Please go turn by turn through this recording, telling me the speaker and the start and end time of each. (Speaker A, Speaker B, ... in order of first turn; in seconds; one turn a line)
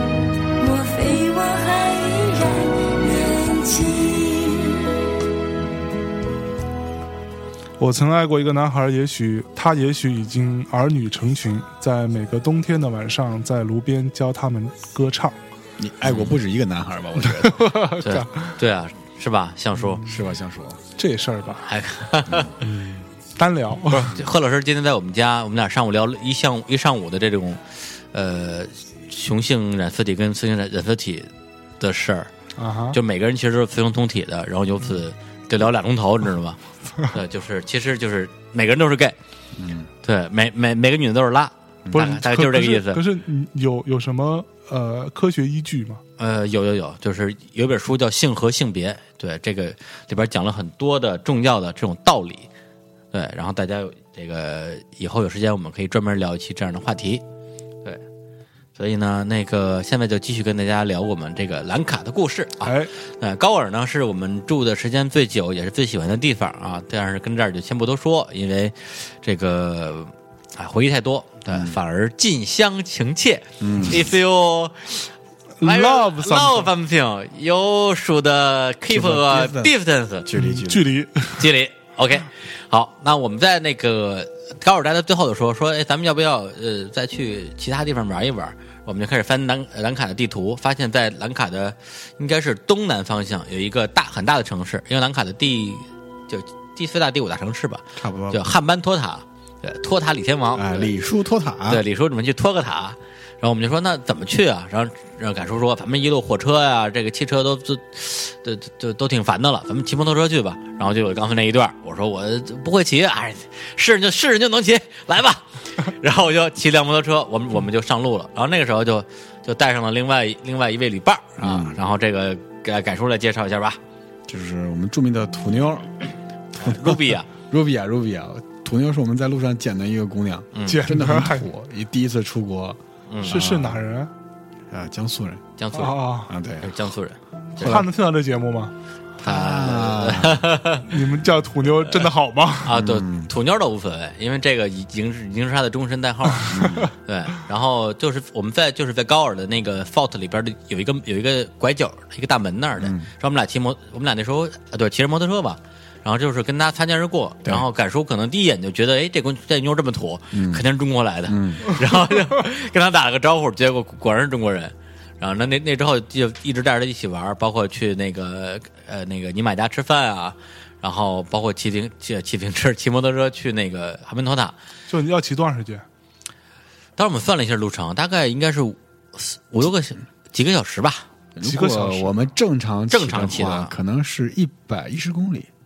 Speaker A: 0.6-5.0
Speaker B: 7.8-15.3
Speaker C: 15.8-17.8
Speaker D: 16.0-16.3
Speaker B: 17.3-18.5
Speaker D: 18.0-20.0
Speaker B: 19.8-20.0
Speaker C: 20.0-20.8
Speaker B: 21.0-21.6
Speaker D: 21.6-22.6
Speaker B: 22.6-24.1
Speaker D: 23.9-27.6
Speaker D: 28.1-31.3
Speaker D: 31.8-32.3
Speaker B: 32.6-33.0
Speaker D: 32.9-39.2
Speaker C: 39.5-39.9
Speaker D: 40.0-43.0
Speaker B: 41.9-46.0
Speaker D: 46.2-52.5
Speaker D: 53.1-57.2
Speaker D: 58.8-75.1
Speaker B: 62.6-62.9
Speaker C: 71.5-71.8
Speaker C: 73.6-74.0
Speaker B: 75.6-76.7
Speaker D: 75.6-80.3
Speaker C: 78.9-80.9
Speaker B: 80.3-81.5
Speaker D: 81.3-100.9
Speaker C: 98.0-98.4
Speaker C: 100.5-101.8
Speaker D: 101.7-123.8
Speaker C: 121.4-121.8
Speaker C: 124.3-125.9
Speaker C: 126.5-133.8
Speaker D: 126.6-127.3
Speaker D: 130.5-130.8
Speaker B: 130.7-131.5
Speaker D: 133.1-133.4
Speaker B: 133.2-134.1
Speaker C: 134.7-135.4
Speaker D: 135.6-136.0
Speaker B: 135.7-136.3
Speaker C: 136.3-136.7
Speaker D: 136.6-137.8
Speaker B: 137.6-138.7
Speaker C: 139.2-140.5
Speaker D: 139.2-140.9
Speaker B: 140.8-142.7
Speaker D: 141.8-142.1
Speaker D: 142.6-174.5
Speaker C: 142.7-143.3
Speaker B: 146.4-146.9
Speaker C: 146.5-146.9
Speaker C: 152.8-153.1
Speaker C: 160.3-160.6
Speaker C: 161.3-161.7
Speaker B: 174.9-175.8
Speaker D: 177.0-181.1
Speaker C: 181.3-185.5
Speaker B: 181.4-182.2
Speaker D: 182.9-183.7